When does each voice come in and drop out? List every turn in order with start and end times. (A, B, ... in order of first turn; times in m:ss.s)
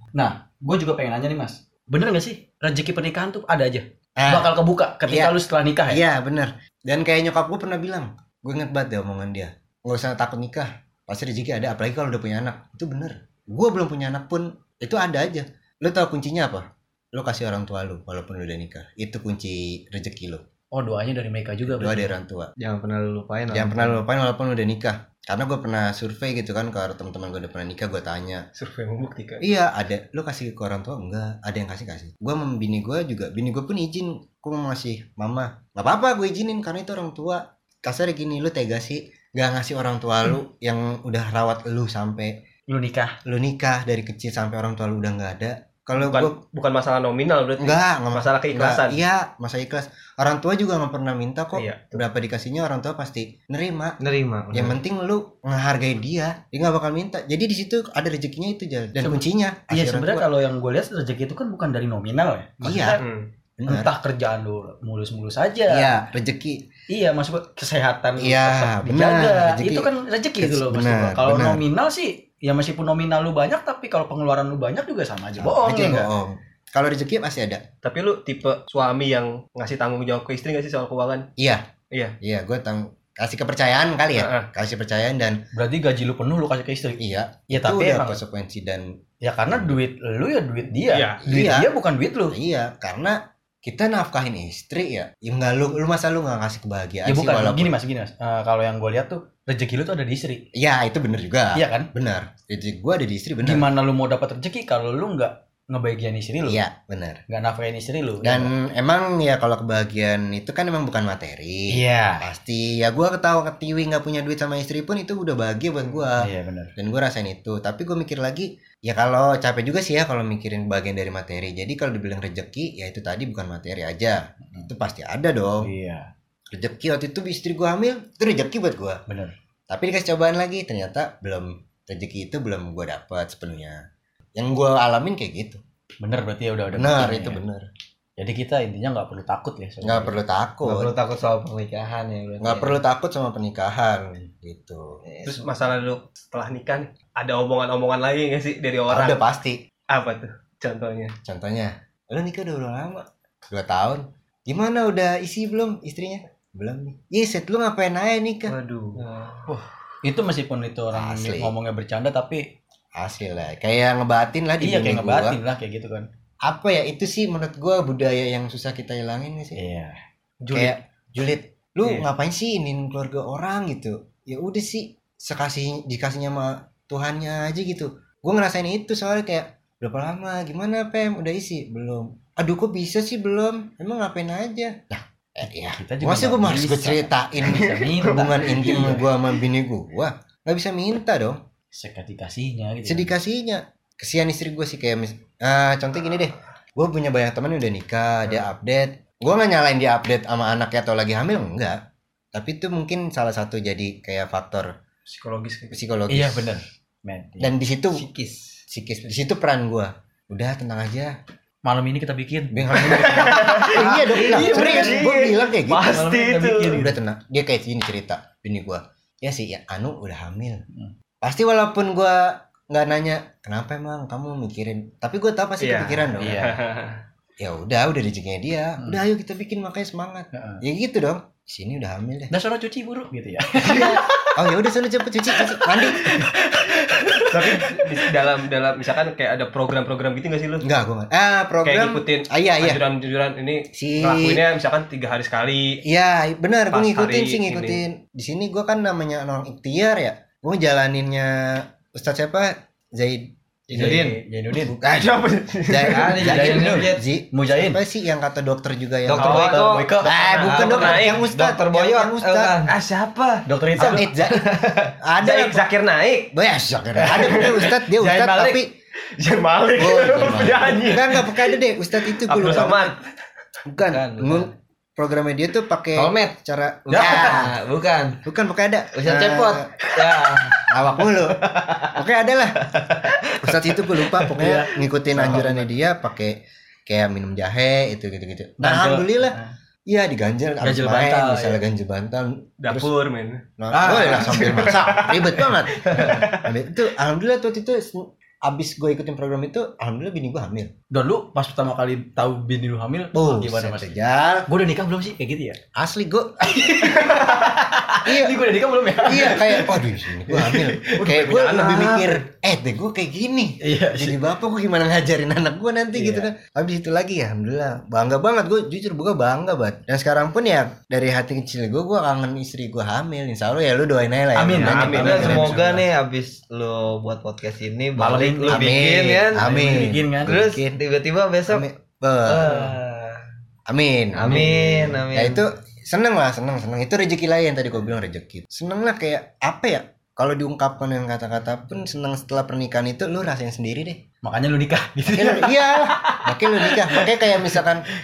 0:00.1-0:06.0 A
0:04.2-0:04.5 B
0:05.1-0:05.4 B
0:05.9-0:20.4 B
0:20.7-0:22.1 A
0:21.6-0:22.5 B
0:22.6-0:24.0 C
0:23.5-0:28.4 B
0:28.5-0:29.5 D
0:29.4-0:42.4 B
0:42.7-0:43.2 A
0:43.2-0:46.4 B
0:46.0-0:49.0 D
0:47.6-0:54.0 B
0:51.5-0:52.0 D
0:54.0-0:54.8 C
0:54.5-1:00.3 B
0:59.0-1:03.0 A
1:02.6-1:03.0 B
1:03.0-1:03.3 D
1:03.6-1:03.9 B
1:03.7-1:05.9 A
1:05.7-1:06.6 B
1:06.9-1:16.1 A
1:08.2-1:11.6 B
1:15.4-1:17.6 B
1:17.8-1:21.3 D
1:21.4-1:21.6 B
1:22.2-1:25.4 B
1:24.1-1:24.5 D
1:25.5-1:28.2 A
1:27.0-1:29.8 B
1:29.2-1:32.4 A
1:30.9-1:31.2 D
1:31.2-1:31.7 B
1:32.3-1:37.7 B
1:37.1-1:40.4 A
1:40.5-1:43.7 B
1:41.5-1:41.9 A
1:43.4-1:46.6 A
1:46.5-1:47.2 B
1:47.3-1:48.5 A
1:48.2-2:05.7 B
1:51.7-1:52.3 A
1:56.2-1:56.7 A
2:05.6-2:06.1 A
2:06.5-2:09.0 B
2:09.1-2:09.4 A
2:09.7-2:13.8 B
2:14.4-2:15.6 B
2:16.0-2:17.4 A
2:16.7-2:17.7 B
2:18.2-2:20.2 A
2:19.8-2:20.9 B
2:20.6-2:22.8 C
2:22.4-2:25.0 B
2:25.1-2:25.5 C
2:25.2-2:29.2 D
2:28.9-2:29.6 B
2:29.9-2:31.1 D
2:31.2-2:38.6 B
2:38.5-2:39.0 D
2:39.0-2:39.4 C
2:39.5-2:42.5 A
2:40.9-2:41.5 B
2:43.0-2:45.4 B
2:44.6-2:46.1 A
2:46.4-2:49.6 B
2:49.6-2:50.0 A
2:50.5-3:11.4 B
3:05.6-3:09.1 A
3:08.3-3:08.7 D
3:11.7-3:13.1 A
3:12.8-3:21.8 B
3:22.3-3:24.7 B
3:25.1-3:25.8 D
3:25.7-3:26.6 B
3:26.1-3:27.5 A
3:27.4-3:28.1 B
3:27.9-3:28.6 C
3:28.7-3:31.2 B
3:31.6-3:35.2 A
3:32.5-3:36.0 B
3:32.8-3:36.9 D
3:35.9-3:36.9 A
3:36.7-3:40.6 B
3:41.2-3:46.5 B
3:45.6-3:47.0 D
3:46.2-3:46.6 A
3:47.4-3:52.3 B
3:50.3-3:50.6 A
3:52.3-3:54.4 A
3:53.6-3:56.3 B
3:55.3-3:58.1 A
3:57.3-4:00.7 D
4:00.6-4:02.8 B
4:01.6-4:05.8 D
4:03.7-4:04.4 B
4:05.8-4:14.0 B
4:06.7-4:07.8 D
4:13.7-4:14.2 C
4:13.8-4:14.8 A
4:13.8-4:16.3 D
4:14.6-4:15.2 B
4:15.7-4:22.6 B
4:15.8-4:17.0 C
4:16.2-4:17.8 A
4:19.1-4:22.8 C
4:19.2-4:21.2 D
4:19.5-4:20.5 A
4:22.7-4:26.3 D
4:23.5-4:24.1 A
4:23.8-4:25.6 B
4:26.3-4:28.7 B
4:27.0-4:28.6 D
4:29.2-4:31.6 D
4:29.8-4:33.0 B
4:32.1-4:33.0 D
4:33.7-4:37.6 B
4:33.8-4:34.5 C
4:35.9-4:36.3 C
4:36.8-4:38.2 C
4:36.9-4:37.4 A
4:38.2-4:39.7 B
4:38.9-4:42.0 C
4:40.7-4:42.7 B
4:42.6-4:44.5 C
4:43.4-4:52.9 B
4:44.4-4:44.8 A
4:45.2-4:45.5 D
4:48.6-4:49.5 A
4:50.6-4:51.6 A
4:52.6-4:56.5 D
4:53.6-5:00.7 B
4:53.7-4:54.7 A
5:00.9-5:03.9 A
5:03.1-5:04.5 B
5:04.5-5:05.6 A
5:05.8-5:07.0 B
5:06.4-5:11.1 A
5:08.0-5:08.5 B
5:09.0-5:25.6 B
5:11.0-5:12.2 D
5:13.6-5:14.2 A
5:15.9-5:16.3 D
5:24.3-5:25.8 A
5:24.6-5:31.7 C
5:24.6-5:25.5 D
5:28.0-5:30.3 A
5:28.5-5:30.8 B
5:31.5-5:32.5 B
5:32.2-5:33.2 C
5:33.7-5:44.0 B
5:34.2-5:35.5 C
5:44.2-5:47.5 A
5:45.1-5:47.9 B